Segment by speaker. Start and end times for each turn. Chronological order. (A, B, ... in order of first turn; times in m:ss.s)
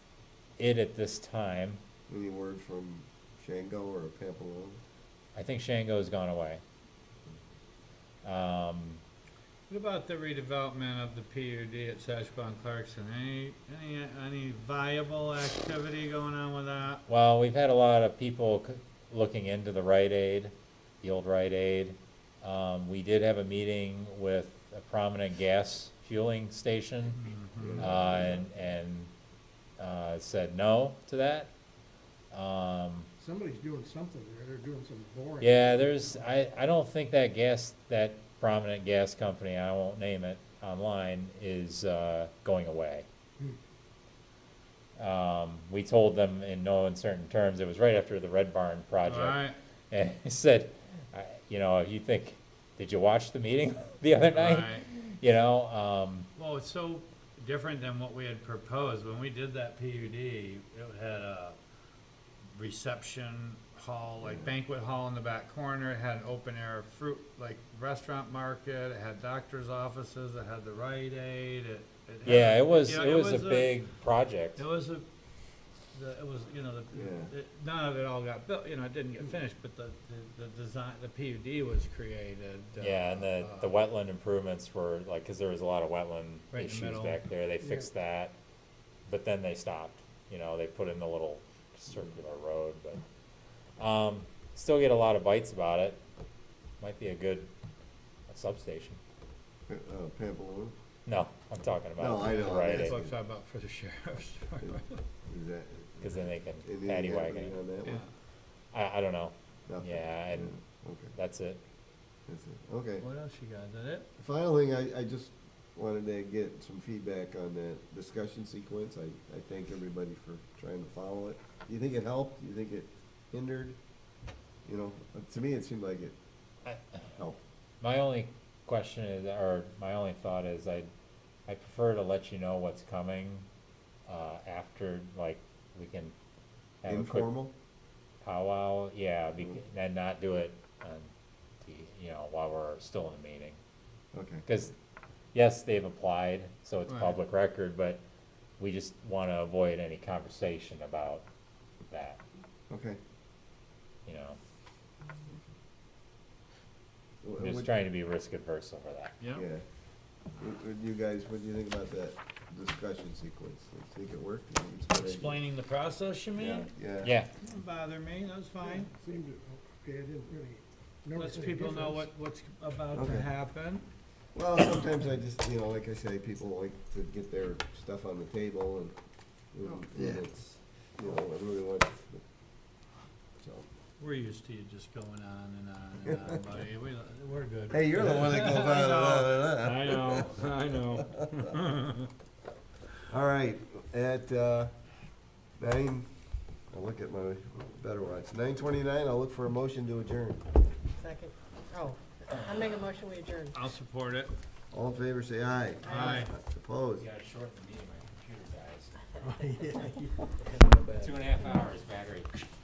0:00.6-0:01.8 A
0:02.1-0:04.8 B
0:05.4-0:06.6 A
0:08.2-0:09.0 A
0:09.7-0:17.0 C
0:17.1-0:27.2 A
0:27.2-0:27.8 C
0:27.6-0:28.5 B
0:27.8-0:29.1 A
0:29.8-0:31.5 A
0:32.3-0:33.1 A
0:33.2-0:36.0 D
0:35.4-0:43.1 A
0:45.0-0:56.3 A
0:49.0-0:49.6 C
0:54.3-0:54.8 C
0:56.4-1:01.6 C
1:02.6-1:13.8 C
1:04.2-1:04.5 B
1:12.2-1:14.6 A
1:14.6-1:15.0 C
1:15.9-1:23.7 C
1:16.9-1:17.3 B
1:22.8-1:28.3 A
1:26.5-1:27.2 C
1:29.1-1:33.0 A
1:33.8-1:36.0 A
1:36.8-1:37.5 A
1:38.3-1:39.0 A
1:39.7-1:40.7 B
1:41.1-1:43.0 A
1:42.0-1:43.2 B
1:42.2-1:45.0 C
1:44.6-1:48.0 B
1:46.0-1:47.6 A
1:48.7-1:50.6 A
1:49.7-1:51.2 B
1:51.1-1:51.6 A
1:52.3-1:53.1 B
1:53.0-1:54.1 C
1:54.2-2:03.8 B
2:04.6-2:06.2 B
2:06.6-2:07.1 A
2:07.1-2:07.4 B
2:07.8-2:10.9 A
2:11.5-2:13.5 A
2:14.1-2:16.1 A
2:16.8-2:17.3 A
2:16.9-2:17.5 B
2:18.2-2:23.6 A
2:24.1-2:24.4 B
2:24.5-2:24.7 A
2:25.3-2:28.0 A
2:26.9-2:27.2 C
2:28.6-2:31.3 A
2:31.9-2:32.2 A
2:32.7-2:33.0 B
2:34.1-2:34.4 A
2:37.2-2:37.8 B
2:37.4-2:39.2 A
2:39.2-2:39.4 C
2:39.3-2:39.6 B
2:40.4-2:45.4 B
2:45.0-2:46.7 C
2:46.4-2:47.1 B
2:47.0-2:47.3 A
2:47.4-2:48.9 C
2:48.6-2:52.1 D
2:51.2-2:53.9 C
2:52.9-2:53.3 B
2:54.4-2:58.9 B
2:59.5-3:02.2 B
3:03.4-3:03.7 B
3:04.0-3:12.1 C
3:06.1-3:06.4 B
3:07.7-3:10.4 B
3:13.1-3:14.7 B
3:15.6-3:16.1 B
3:16.7-3:20.4 B
3:21.0-3:23.6 E
3:23.5-3:24.3 C
3:24.7-3:27.1 B
3:25.8-3:26.3 C
3:25.9-3:26.2 E
3:27.0-3:29.0 A
3:29.2-3:30.3 D
3:30.5-3:32.3 A